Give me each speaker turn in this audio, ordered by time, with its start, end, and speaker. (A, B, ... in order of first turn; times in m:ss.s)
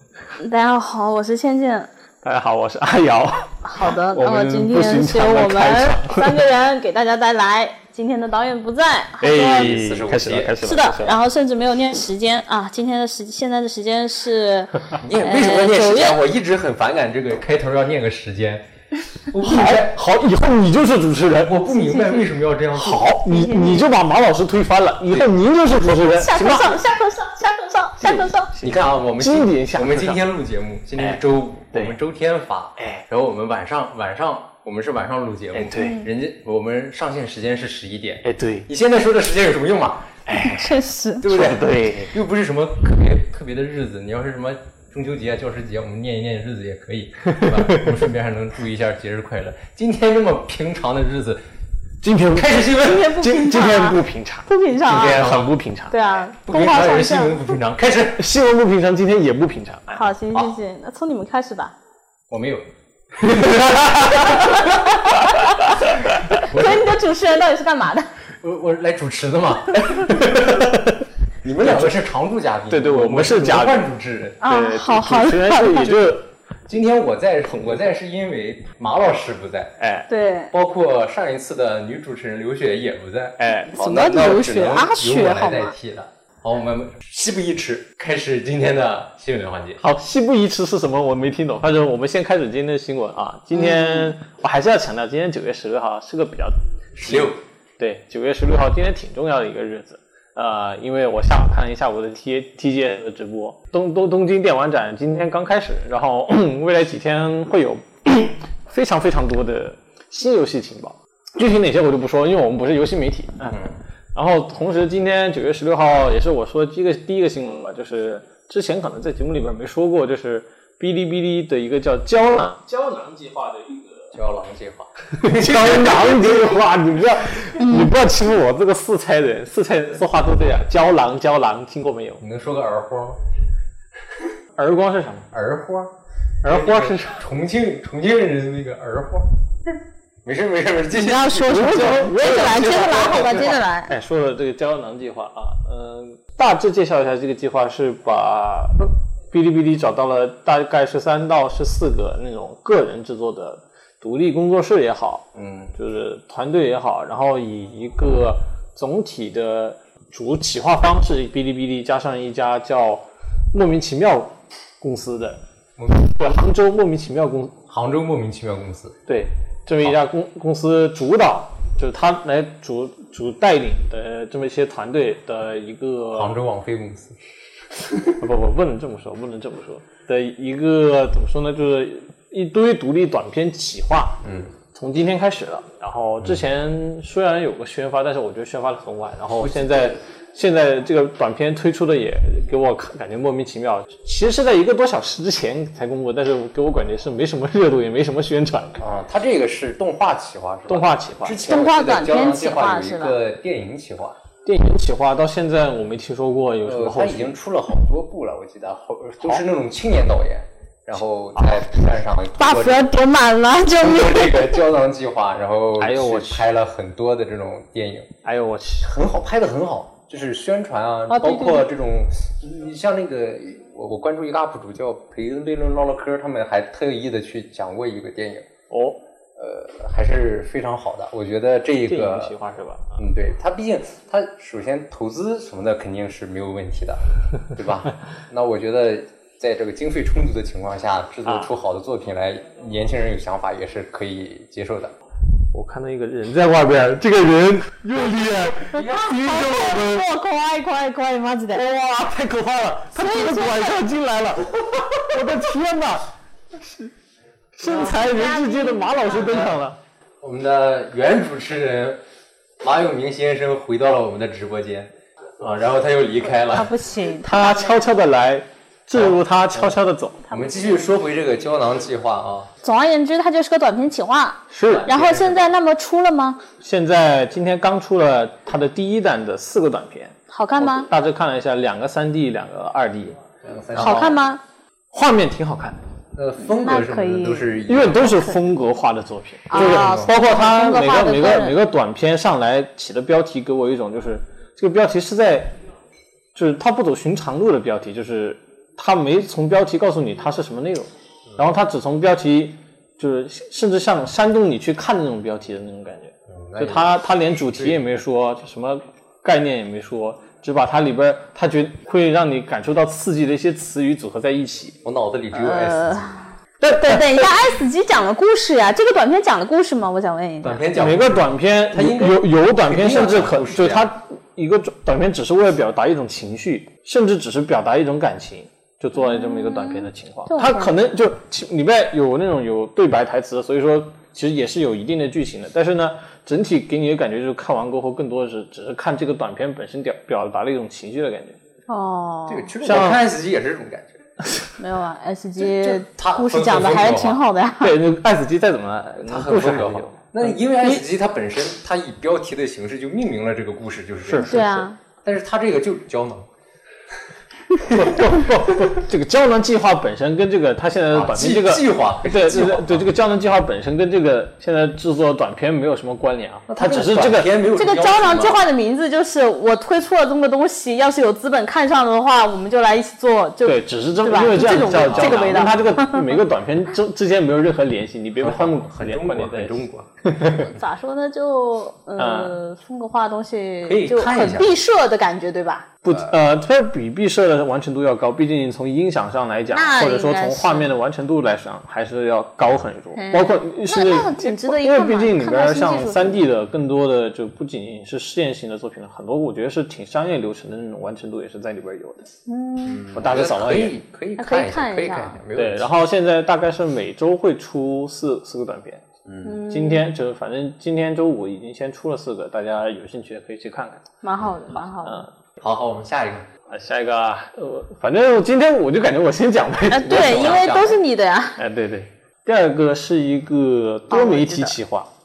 0:00.4-0:01.9 A
0:02.2-0:06.4 B
0:03.6-0:09.7 A
0:09.2-0:11.2 B
0:09.2-0:10.5 C
0:10.6-0:16.2 A
0:15.0-0:18.7 C
0:19.2-0:20.0 C
0:19.4-0:21.7 B
0:21.3-0:23.1 C
0:21.7-0:22.2 A
0:22.7-0:26.8 B
0:23.2-0:23.8 A
0:26.0-0:28.5 A
0:28.0-0:30.2 B
0:28.6-0:40.2 C
0:31.0-0:31.2 B
0:32.8-0:33.0 B
0:35.5-0:36.0 B
0:35.7-0:36.0 A
0:38.2-0:38.7 B
0:40.2-0:42.2 B
0:40.4-0:41.2 A
0:41.2-0:51.4 C
0:47.2-0:48.1 B
0:52.0-0:56.0 B
0:52.2-0:53.2 C
0:52.8-0:55.3 A
0:54.8-0:55.5 C
0:55.9-0:57.5 A
0:56.4-0:58.2 C
0:58.2-1:00.4 B
0:59.9-1:01.7 A
1:02.3-1:05.0 C
1:03.2-1:04.7 B
1:04.6-1:05.6 A
1:05.8-1:06.4 B
1:06.3-1:08.1 A
1:06.3-1:06.9 C
1:08.4-1:10.7 C
1:10.1-1:11.0 B
1:11.4-1:14.4 C
1:11.6-1:12.0 B
1:12.7-1:13.9 B
1:14.4-1:16.1 A
1:14.4-1:16.2 B
1:16.7-1:19.8 C
1:17.5-1:17.8 B
1:19.8-1:20.1 B
1:20.1-1:20.5 A
1:20.5-1:29.8 C
1:23.4-1:23.7 B
1:23.7-1:25.7 A
1:29.8-2:04.1 B
1:33.5-1:34.1 A
1:36.9-1:37.4 C
2:04.1-2:06.4 C
2:05.2-2:12.2 B
2:07.6-2:07.9 A
2:12.2-2:13.2 C
2:14.6-2:15.3 B
2:15.3-2:19.3 C
2:16.4-2:17.2 B
2:20.2-2:23.6 C
2:20.9-2:23.9 A
2:21.5-2:45.4 B
2:35.3-2:35.7 C
2:45.8-2:46.4 C
2:46.0-2:47.6 B
2:47.7-2:49.0 C
2:49.1-2:56.4 B
2:56.1-2:57.2 C
2:58.2-3:18.8 B
3:04.2-3:04.5 C
3:09.4-3:09.9 C
3:18.8-3:24.2 C
3:20.7-3:21.5 B
3:21.4-3:23.2 A
3:24.4-3:27.3 B
3:26.6-3:32.9 C
3:31.3-3:31.7 B
3:32.4-3:34.6 A
3:33.7-3:38.1 C
3:35.8-3:36.5 B
3:38.2-3:38.9 B
3:38.8-3:48.4 C
3:41.1-3:41.7 A
3:48.7-3:49.0 B
3:49.4-3:52.4 C
3:51.9-3:53.0 B
3:53.0-4:04.9 C
4:05.5-4:10.1 B
4:08.7-4:09.1 C
4:08.7-4:11.6 A
4:11.5-4:16.1 B
4:13.0-4:13.8 A
4:17.5-4:19.8 B
4:17.7-4:19.0 A
4:19.1-4:19.6 C
4:20.2-4:22.0 C
4:22.6-4:26.7 C
4:26.5-4:27.6 A
4:27.2-4:30.5 B
4:28.9-4:29.8 C
4:30.3-4:32.5 C
4:32.6-4:36.4 A
4:34.5-4:34.9 B
4:34.6-4:35.4 C
4:36.6-4:43.2 B
4:40.3-4:40.9 A
4:43.4-4:44.2 C
4:43.7-4:44.4 A
4:43.8-4:44.1 B
4:44.9-4:45.8 B
4:46.1-4:48.3 C
4:46.4-4:47.6 A
4:47.6-4:55.6 B
4:49.5-4:51.6 A
4:49.5-4:50.1 C
4:56.3-5:14.8 B
5:06.3-5:07.0 C
5:14.8-5:16.1 C
5:15.3-5:20.6 A
5:16.6-5:17.3 B
5:20.4-5:23.9 C
5:20.6-5:41.4 B
5:29.0-5:30.7 A
5:41.7-5:42.5 A
5:42.3-5:44.0 C
5:42.6-5:43.0 B
5:44.6-5:47.8 A
5:45.4-5:47.2 C
5:47.6-5:50.8 B
5:49.0-5:54.5 C
5:54.0-5:54.6 B
5:54.2-5:54.8 A
5:55.0-5:56.3 C
5:57.6-6:07.3 B
5:57.7-5:58.7 C
6:00.9-6:02.9 C
6:06.5-6:08.4 C
6:07.5-6:16.2 A
6:13.4-6:20.5 B
6:14.4-6:15.7 C
6:18.2-6:20.5 C
6:20.5-6:25.7 A
6:22.0-6:22.4 B
6:23.6-6:24.6 C
6:25.8-6:42.1 B
6:25.9-6:26.1 C
6:29.5-6:30.7 A
6:33.0-6:36.2 A
6:42.3-6:42.9 A
6:42.6-6:45.7 C
6:42.9-6:43.8 B
6:44.2-6:45.2 A
6:45.3-6:48.8 B
6:49.0-6:49.4 C
6:49.2-6:49.8 A
6:49.4-6:53.8 B
6:54.0-6:55.0 A
6:54.8-6:55.1 B
6:55.4-6:56.3 C
6:56.5-7:00.8 B
6:59.7-7:01.4 A
6:59.8-7:00.7 C
7:01.4-7:04.9 B
7:03.9-7:04.5 A